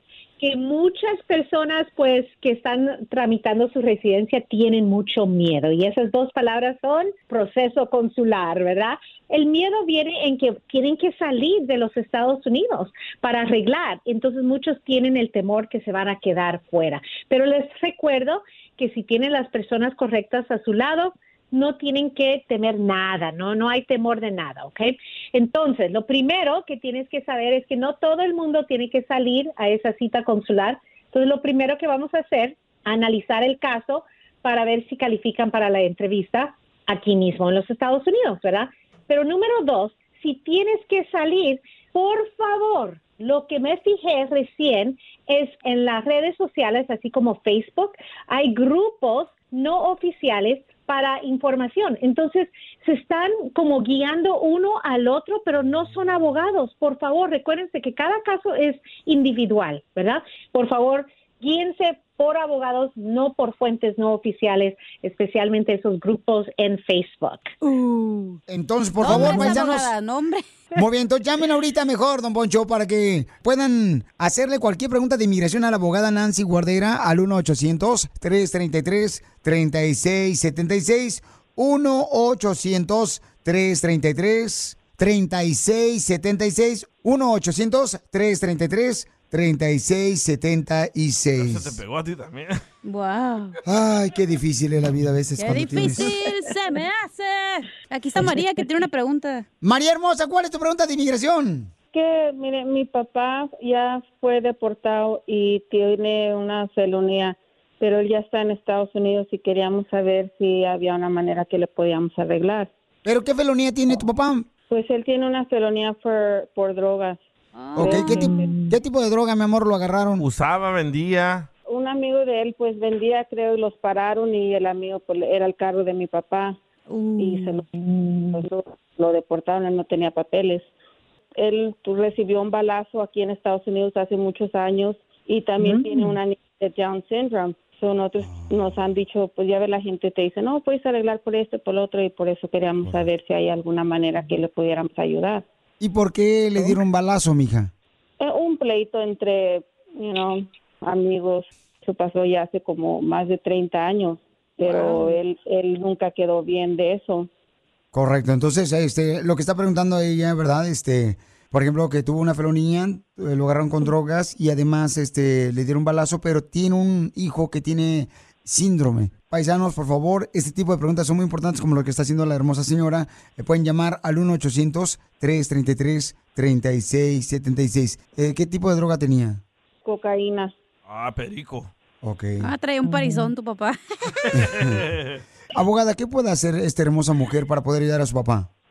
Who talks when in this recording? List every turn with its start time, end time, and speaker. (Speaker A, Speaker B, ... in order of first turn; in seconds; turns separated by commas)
Speaker A: 0.4-67.5, Speaker B: 67.6-68.4, Speaker C: 68.5-69.9, Speaker B: 69.0-70.4, Speaker C: 70.8-91.8, Speaker D: 91.4-92.6, Speaker B: 92.8-93.5, Speaker C: 93.6-96.1, Speaker B: 95.4-99.5, Speaker C: 99.6-101.7, Speaker E: 101.9-112.7, Speaker C: 113.0-114.5, Speaker E: 114.7-117.2, Speaker B: 117.6-118.5, Speaker C: 117.7-120.2, Speaker E: 117.8-118.5, Speaker D: 120.2-121.5, Speaker E: 121.7-126.6, Speaker B: 126.9-127.6, Speaker E: 127.2-127.7, Speaker E: 128.3-130.7, Speaker E: 131.4-145.4, Speaker C: 138.3-138.7, Speaker C: 145.8-147.7, Speaker E: 148.2-157.3, Speaker B: 154.6-155.2, Speaker C: 157.9-179.4, Speaker E: 179.8-180.5, Speaker D: 180.9-181.7, Speaker C: 182.0-182.5, Speaker B: 182.4-183.8, Speaker E: 182.8-183.2, Speaker C: 184.3-184.8, Speaker D: 184.3-185.2, Speaker C: 185.5-188.5